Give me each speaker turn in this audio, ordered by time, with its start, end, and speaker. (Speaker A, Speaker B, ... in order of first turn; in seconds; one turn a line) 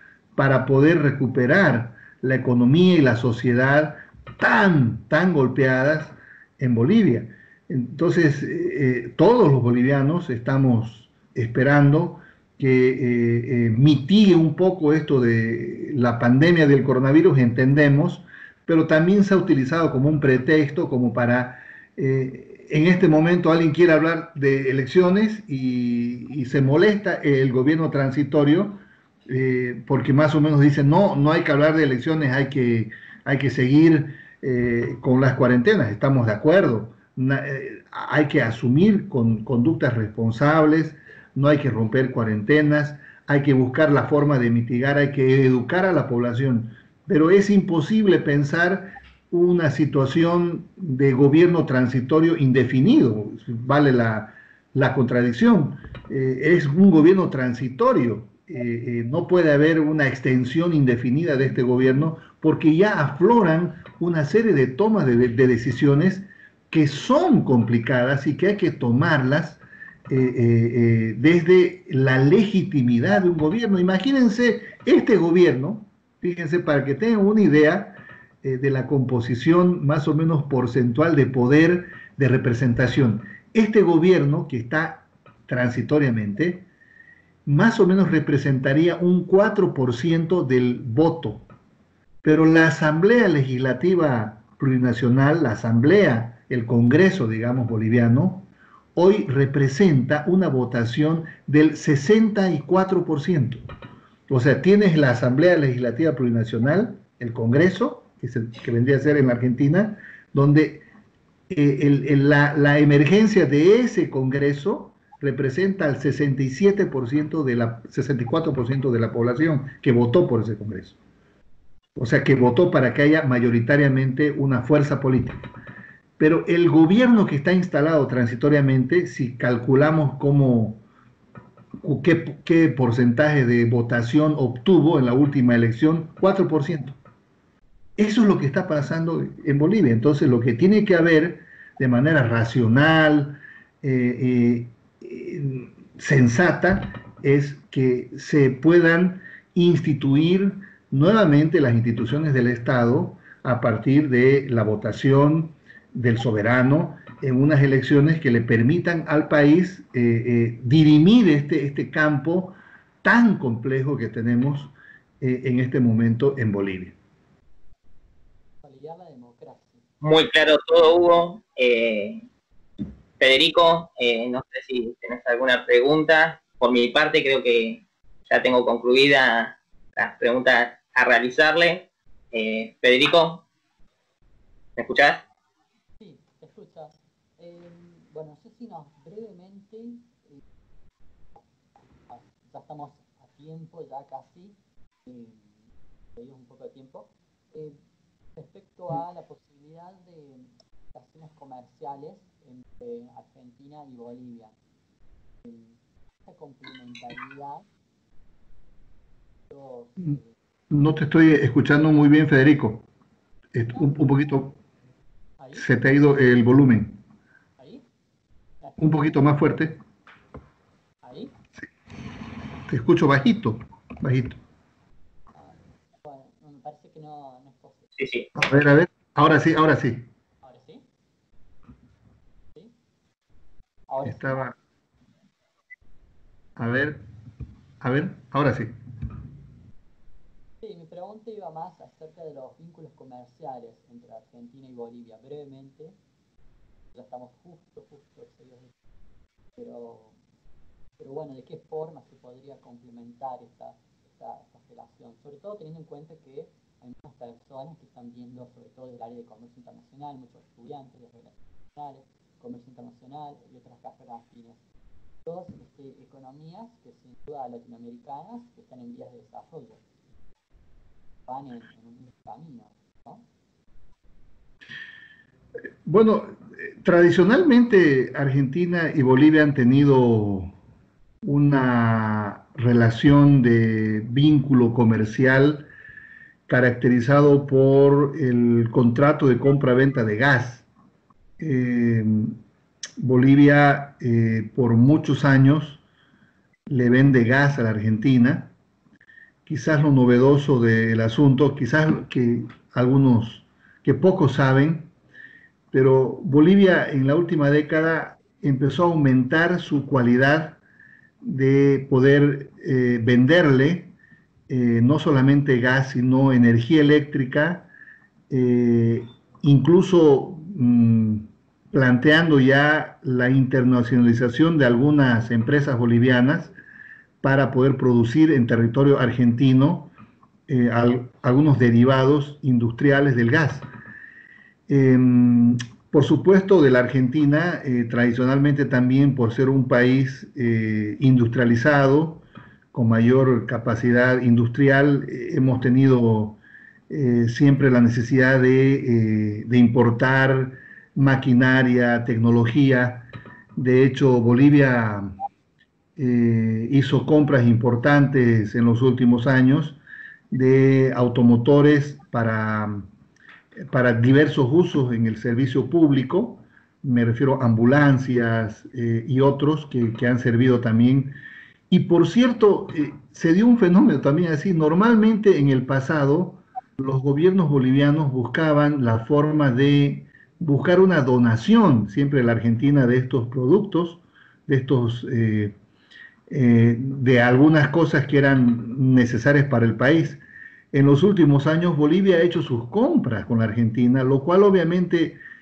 Speaker A: 0.3-86.7
Speaker A: 87.5-91.5
Speaker A: 92.2-103.6
Speaker A: 104.3-110.8
Speaker A: 111.5-121.0
Speaker A: 122.0-125.4
Speaker A: 126.2-130.8
Speaker A: 131.8-137.0
Speaker A: 138.0-166.9
Speaker B: 168.6-169.8
Speaker C: 170.0-172.2
Speaker C: 173.2-183.4
Speaker C: 184.8-185.2
Speaker B: 186.0-190.2
Speaker B: 192.1-195.5
Speaker B: 196.2-197.8
Speaker B: 198.3-204.5
Speaker B: 205.4-207.6
Speaker B: 209.5-210.3
Speaker A: 210.7-212.8
Speaker A: 213.5-214.5
Speaker B: 213.7-214.0
Speaker B: 215.4-215.7
Speaker A: 215.6-216.9
Speaker B: 217.6-217.8
Speaker B: 218.6-219.0
Speaker A: 218.8-219.8
Speaker B: 221.0-221.3
Speaker A: 222.7-224.4
Speaker B: 225.4-227.8
Speaker C: 228.0-228.3
Speaker A: 228.3-230.1
Speaker B: 230.4-230.8
Speaker B: 233.9-234.4
Speaker A: 234.0-234.5
Speaker A: 236.6-237.0
Speaker A: 237.8-238.7
Speaker B: 240.6-245.9
Speaker B: 246.9-248.7
Speaker B: 249.6-250.1
Speaker B: 251.0-264.6
Speaker B: 265.2-269.8
Speaker B: 271.3-273.2
Speaker A: 275.9-280.5
Speaker A: 281.2-285.7
Speaker A: 286.5-290.7
Speaker A: 291.4-292.4
Speaker A: 293.0-295.8
Speaker A: 296.7-298.5
Speaker A: 299.4-304.9
Speaker A: 305.7-310.6
Speaker A: 311.2-313.9
Speaker A: 314.5-317.7
Speaker A: 318.3-326.5
Speaker A: 327.2-329.9
Speaker A: 330.5-333.7
Speaker A: 334.7-355.1
Speaker A: 356.0-359.8
Speaker A: 360.3-362.9
Speaker A: 363.7-371.1
Speaker A: 371.7-385.5
Speaker A: 386.3-395.2